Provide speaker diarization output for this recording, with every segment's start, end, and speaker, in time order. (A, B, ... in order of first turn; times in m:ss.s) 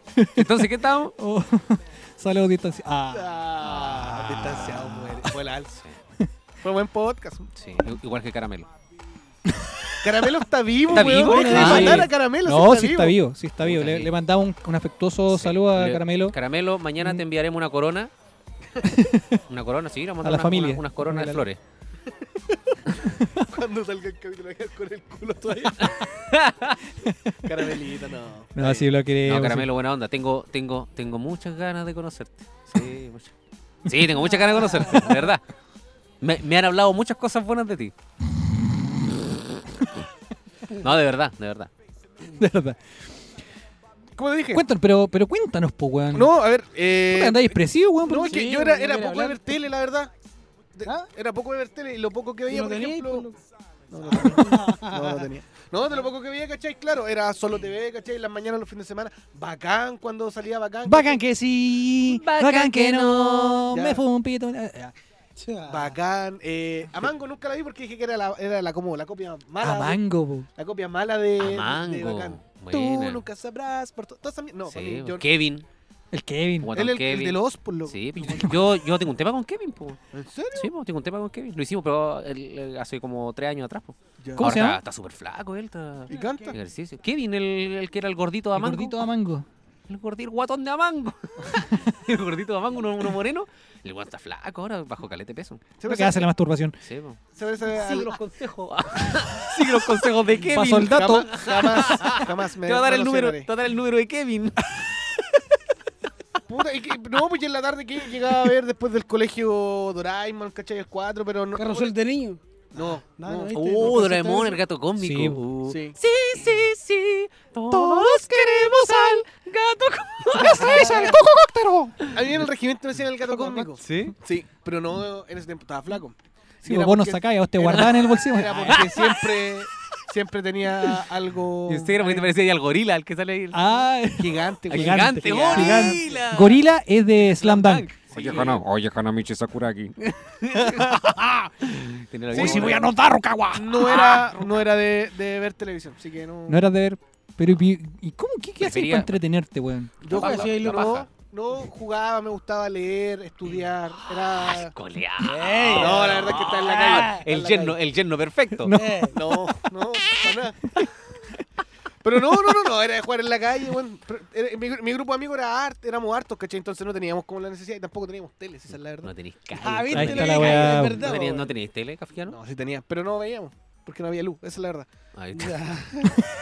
0:00.1-0:03.4 A
0:00.4-0:01.2 B
0:03.1-0:05.8 C
0:03.6-0:04.8 B
0:04.0-0:05.3 A
0:06.6-0:07.5 C
0:07.6-0:08.7 B
0:10.0-0:13.2 C
0:10.9-0:12.1 B
0:10.9-0:16.4 A
0:13.6-0:14.1 B
0:15.3-0:18.1 B
0:18.8-0:19.3 A
0:19.5-0:21.6 B
0:20.2-0:21.5 A
0:23.5-0:26.0 C
0:25.8-0:26.8 B
0:27.0-0:27.4 A
0:27.4-0:28.9 C
0:28.6-0:29.7 A
0:29.2-0:33.3 B
0:33.8-0:35.4 B
0:36.2-0:37.9 B
0:40.8-0:41.7 B
0:42.4-0:42.8 A
0:44.2-0:44.6 C
0:44.5-0:46.4 A
0:46.1-0:50.1 C
0:47.1-0:48.5 A
0:48.2-0:49.4 D
0:50.8-0:53.3 C
0:52.5-0:53.4 D
0:53.9-1:01.2 C
0:54.1-0:55.3 D
1:00.8-1:04.9 A
1:02.1-1:03.7 B
1:03.7-1:04.0 C
1:05.4-1:06.0 D
1:05.7-1:10.0 C
1:09.6-1:10.5 A
1:10.6-1:15.2 C
1:11.4-1:13.2 B
1:14.7-1:15.7 B
1:16.1-1:16.7 A
1:16.6-1:20.0 B
1:16.7-1:18.7 C
1:20.1-1:20.7 C
1:20.5-1:29.1 B
1:24.2-1:24.5 C
1:24.4-1:24.8 A
1:26.1-1:26.6 C
1:26.1-1:26.6 D
1:28.6-1:29.5 A
1:29.9-1:35.6 B
1:35.8-1:36.3 C
1:35.9-1:36.7 A
1:36.8-1:44.8 B
1:37.4-1:38.2 C
1:40.5-1:41.3 A
1:40.6-1:43.5 C
1:46.5-1:51.9 C
1:51.6-1:52.4 D
1:52.8-1:54.0 C
1:53.0-1:54.6 D
1:53.5-2:01.2 B
1:55.0-1:55.4 A
1:55.7-1:56.0 C
1:57.7-1:59.3 A
2:00.3-2:02.0 A
2:00.4-2:01.2 D
2:02.0-2:02.3 B
2:02.1-2:12.3 C
2:03.3-2:03.7 A
2:03.8-2:04.2 B
2:06.6-2:09.0 A
2:08.7-2:09.4 B
2:11.7-2:13.7 B
2:13.5-2:18.6 A
2:14.1-2:16.2 C
2:14.7-2:16.6 B
2:17.2-2:22.9 B
2:18.1-2:18.5 C
2:22.3-2:22.9 C
2:22.3-2:24.2 A
2:23.6-2:26.6 C
2:23.8-2:24.7 B
2:26.5-2:30.0 A
2:28.6-2:29.1 B
2:30.0-2:34.7 C
2:30.1-2:31.1 B
2:30.1-2:30.9 D
2:34.1-2:38.7 B
2:35.2-2:37.2 D
2:35.7-2:37.8 C
2:38.5-2:39.4 A
2:38.7-2:39.2 D
2:39.1-2:40.8 C
2:42.0-2:49.1 C
2:49.0-2:52.4 B
2:49.6-2:51.5 D
2:49.9-2:51.0 A
2:52.3-2:54.9 C
2:55.1-2:55.7 B
2:55.3-2:56.3 D